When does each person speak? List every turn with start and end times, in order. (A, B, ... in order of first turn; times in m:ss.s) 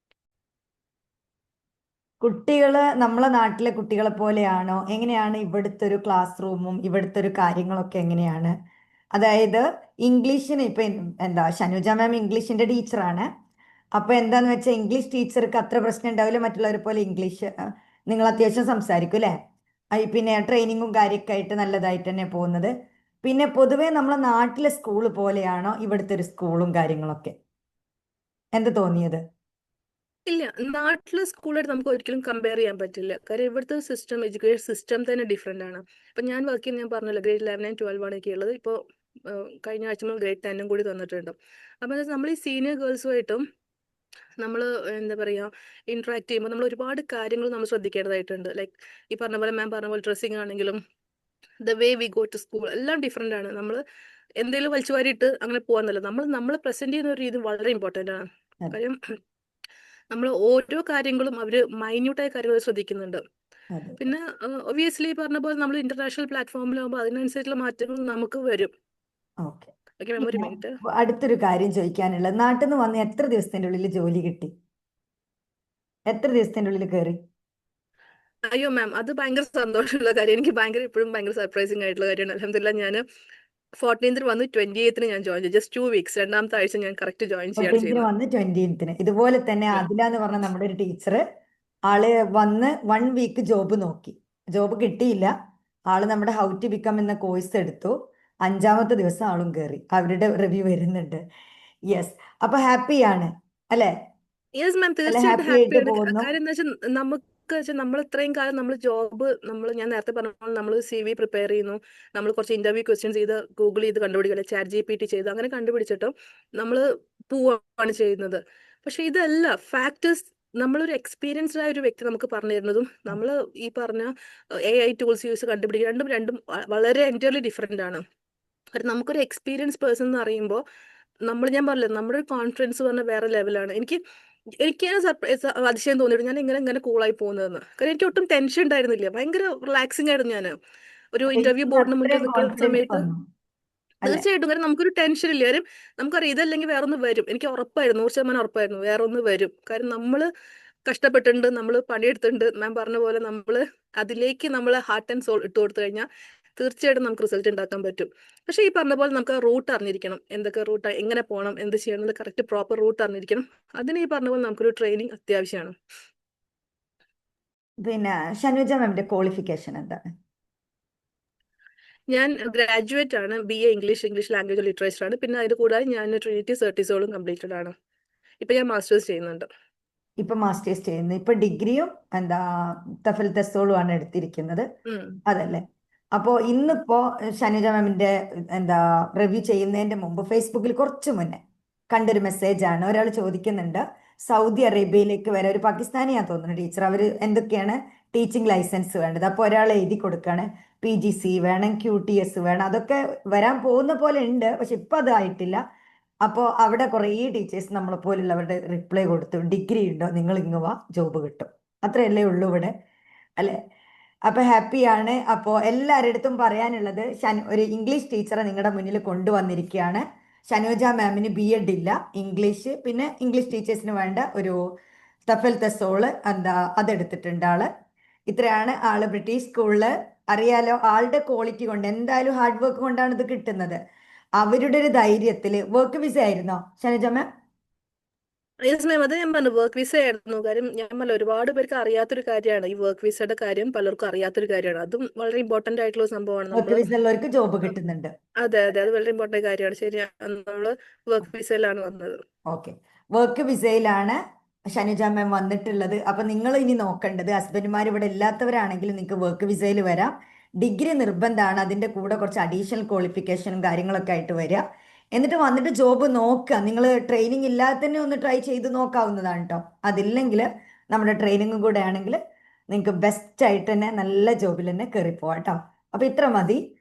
0:02.2-0:08.5 A
0:09.2-0:13.3 A
0:14.0-0:17.5 A
0:18.1-0:19.3 A
0:20.0-0:22.7 A
0:23.2-0:27.4 A
0:28.6-0:29.2 A
0:30.3-0:43.4 B
0:44.4-0:50.8 B
0:51.6-0:53.8 B
0:54.4-0:59.0 B
1:00.1-1:03.2 B
1:03.7-1:04.1 A
1:04.0-1:08.7 B
1:09.4-1:14.5 A
1:10.0-1:10.8 B
1:16.1-1:17.2 A
1:18.5-1:23.0 B
1:23.8-1:28.1 B
1:27.6-1:31.2 A
1:31.9-1:35.3 A
1:35.9-1:37.9 A
1:38.4-1:41.2 A
1:41.9-1:43.9 A
1:44.6-2:08.0 B
1:45.1-1:46.3 A
2:08.8-2:10.6 B
2:11.3-2:14.0 B
2:14.6-2:20.5 B
2:21.1-2:23.1 B
2:21.3-2:23.2 A
2:24.0-2:30.3 B
2:30.9-2:45.8 B
2:47.8-2:50.0 A
2:52.1-2:57.7 B
2:58.4-2:59.5 B
3:00.2-3:04.7 A
3:04.9-3:05.2 B
3:05.3-3:05.6 A
3:06.2-3:11.4 A
3:11.9-3:25.6 A
3:26.2-3:32.7 A
3:34.3-3:44.6 A
3:45.3-3:47.7 A
3:48.3-3:53.8 A
3:54.4-3:57.3 A
3:58.7-4:06.8 B
4:06.5-4:08.1 A
4:08.4-4:12.2 B
4:12.5-4:14.2 A
4:14.7-4:24.6 A
4:25.2-4:32.2 A
4:32.7-4:36.6 A